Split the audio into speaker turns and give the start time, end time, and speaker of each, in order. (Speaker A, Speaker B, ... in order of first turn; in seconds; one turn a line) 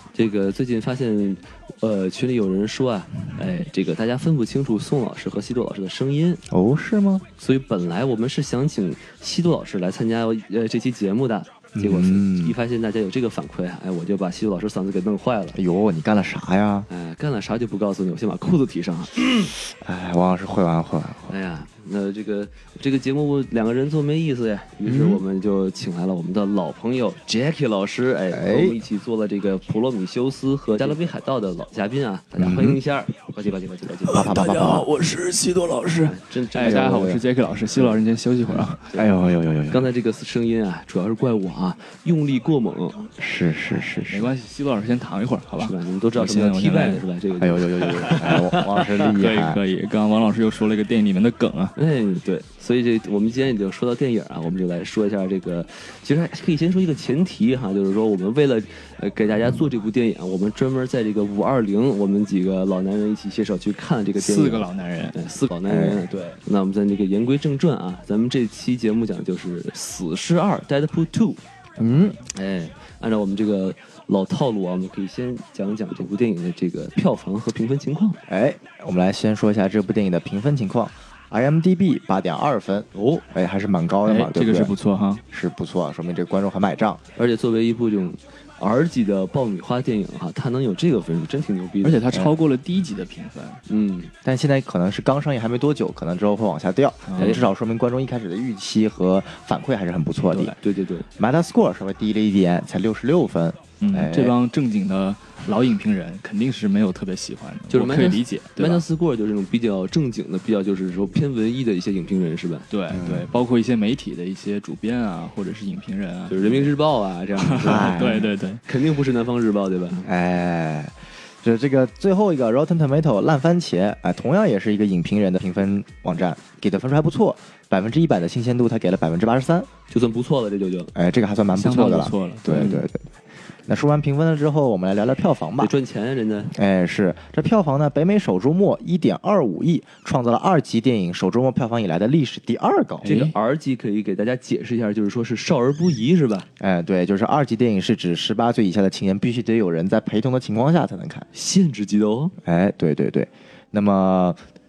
Speaker A: 0.1-6.4
Speaker B: 6.5-7.2
Speaker A: 7.4-15.6
Speaker B: 11.7-12.6
Speaker B: 15.6-16.9
Speaker A: 16.9-19.5
Speaker B: 19.8-21.3
Speaker A: 21.3-34.3
Speaker B: 24.8-25.2
Speaker B: 28.3-28.8
Speaker B: 32.4-32.8
Speaker C: 34.1-38.8
Speaker B: 34.1-34.9
Speaker A: 36.0-37.1
Speaker B: 36.6-37.2
Speaker A: 37.8-39.1
Speaker B: 39.0-39.9
Speaker A: 39.7-43.1
Speaker B: 43.2-44.3
Speaker C: 44.1-47.0
Speaker A: 45.6-49.0
Speaker B: 47.4-49.6
Speaker C: 49.0-51.7
Speaker A: 51.8-71.4
Speaker C: 64.2-65.2
Speaker B: 65.7-66.0
Speaker B: 71.8-72.2
Speaker A: 72.3-78.2
Speaker B: 78.3-84.7
Speaker A: 82.9-83.2
Speaker C: 84.0-85.2
Speaker B: 85.3-87.0
Speaker A: 87.2-92.0
Speaker C: 91.8-93.6
Speaker A: 93.7-94.1
Speaker B: 94.2-100.6
Speaker C: 97.1-97.5
Speaker A: 100.4-101.0
Speaker B: 101.2-104.4
Speaker C: 103.8-108.8
Speaker A: 107.7-112.7
Speaker C: 112.7-116.7
Speaker B: 112.9-113.3
Speaker A: 116.3-118.2
Speaker C: 117.4-118.6
Speaker B: 117.7-118.3
Speaker A: 118.7-120.1
Speaker B: 120.0-129.7
Speaker A: 129.9-130.9
Speaker B: 130.9-133.1
Speaker C: 131.6-132.7
Speaker A: 132.5-132.8
Speaker B: 133.7-135.7
Speaker A: 135.6-136.5
Speaker B: 136.5-143.1
Speaker C: 143.0-143.3
Speaker A: 143.0-146.5
Speaker B: 146.6-151.3
Speaker A: 151.3-152.3
Speaker B: 152.4-154.4